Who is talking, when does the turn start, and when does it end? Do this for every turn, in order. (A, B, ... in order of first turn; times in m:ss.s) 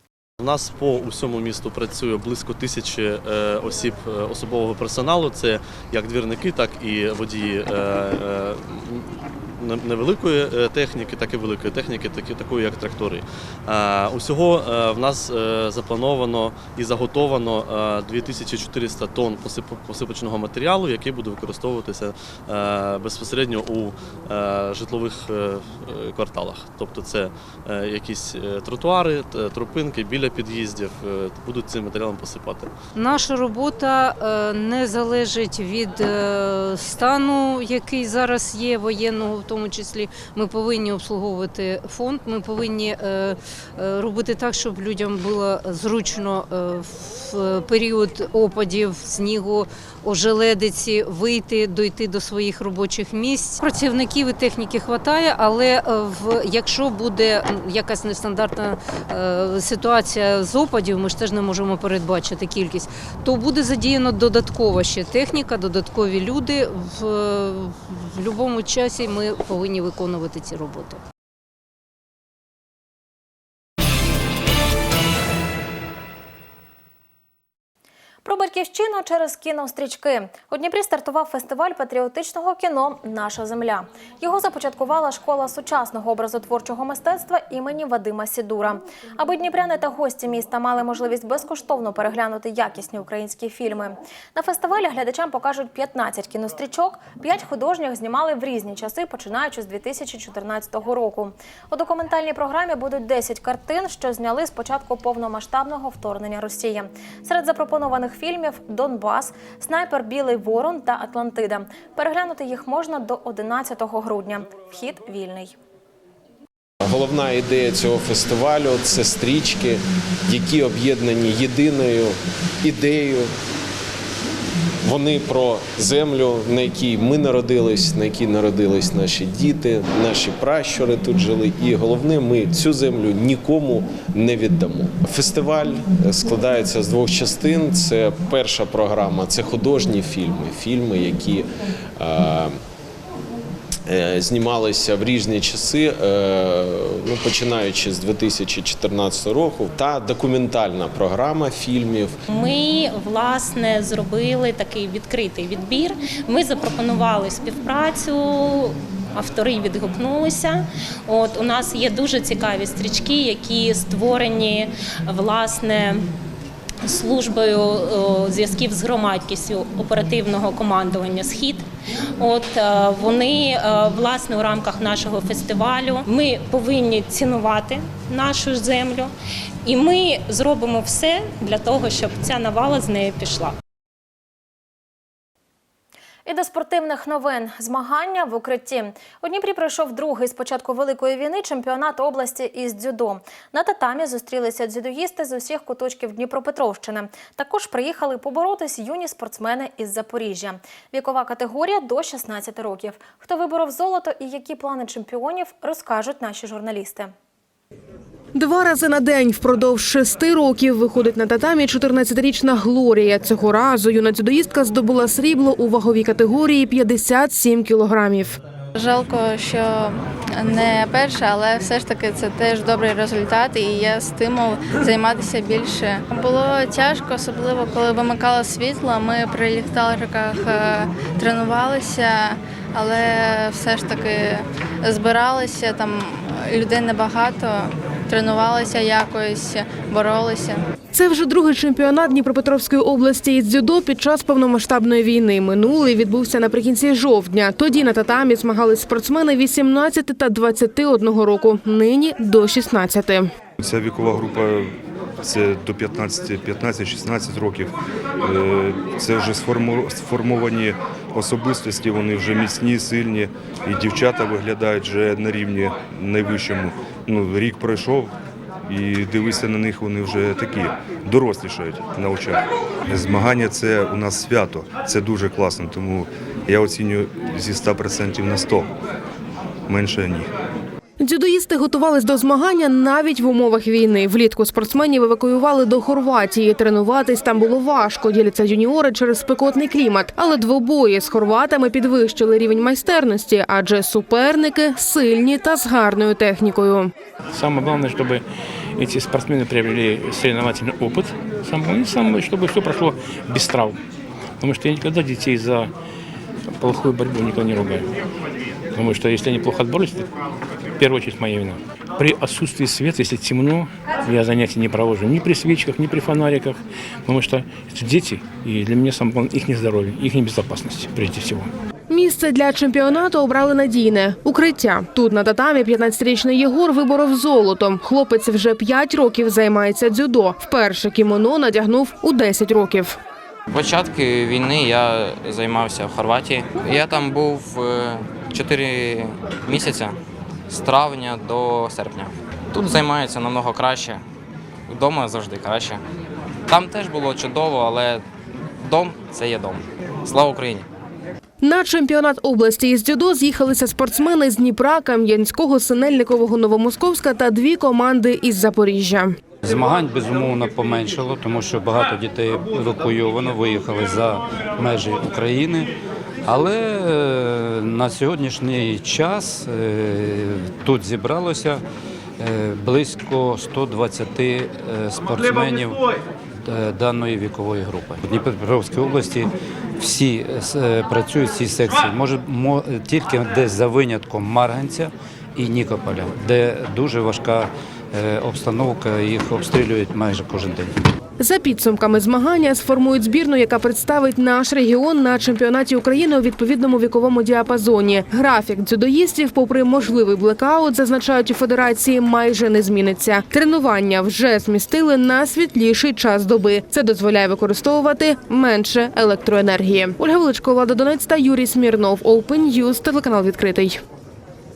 0:00.4-0:32.7 A
0:33.0-1:11.0 B
1:18.2-1:55.6 C
1:56.8-2:03.3 D
2:04.8-2:22.6 D
2:23.9-2:32.2 D
2:32.3-2:46.0 E
2:46.8-2:51.6 E
2:52.2-2:59.1 E
2:59.6-3:03.5 E
3:06.3-3:27.1 C
3:28.3-3:38.4 F
3:38.8-4:00.6 G
4:00.9-4:13.3 F
4:13.6-4:28.1 H
4:28.7-4:38.7 H
4:39.7-4:40.3 H
4:41.0-4:56.9 F
4:57.3-4:58.2 I
4:58.8-5:03.8 I
5:04.4-5:05.7 I
5:06.6-5:07.9 I
5:08.8-5:10.1 I
5:10.8-5:21.5 I
5:21.9-5:33.0 F
5:33.5-5:40.0 J
5:40.5-5:44.0 J
5:44.7-5:45.8 J
5:46.5-5:48.0 J
5:48.6-5:50.7 J
5:51.4-5:59.2 F
5:59.4-6:05.7 K
6:06.2-6:11.6 K
6:12.2-6:15.8 K
6:16.4-6:30.7 K
6:31.2-6:53.8 F